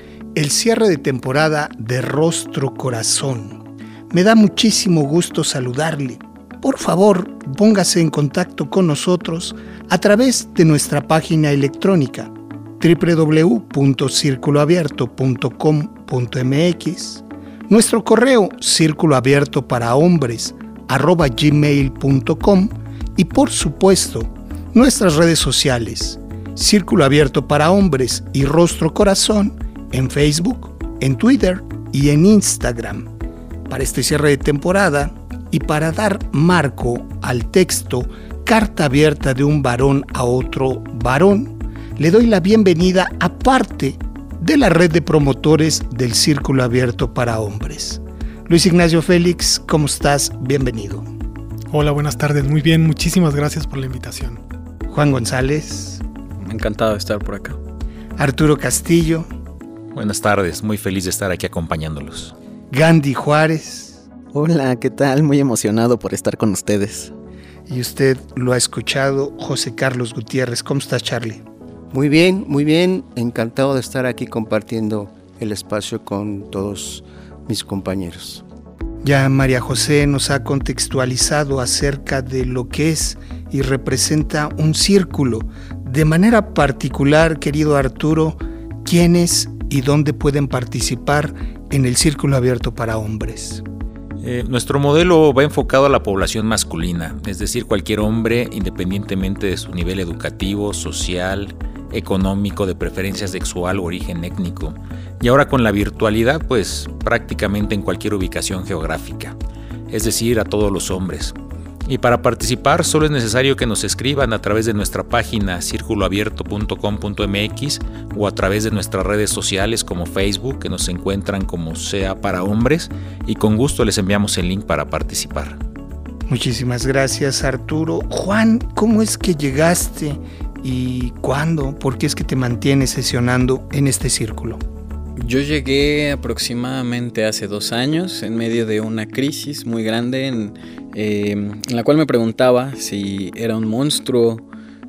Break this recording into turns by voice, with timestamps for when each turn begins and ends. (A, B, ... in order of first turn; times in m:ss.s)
0:00.3-0:33.1 A
0:33.7-0:51.1 A
0:51.7-0:54.4 B
0:54.9-0:56.0 A
0:56.4-0:57.6 C
0:58.2-0:59.3 A
0:59.9-1:02.3 D
1:02.7-1:04.0 A
1:04.3-1:07.1 E
1:07.7-1:11.4 A
1:11.9-1:18.4 F
1:19.0-1:33.6 A
1:34.2-1:49.4 D
1:49.9-1:51.3 D
1:51.8-2:05.6 D
2:06.3-2:14.6 A
2:15.2-2:24.4 C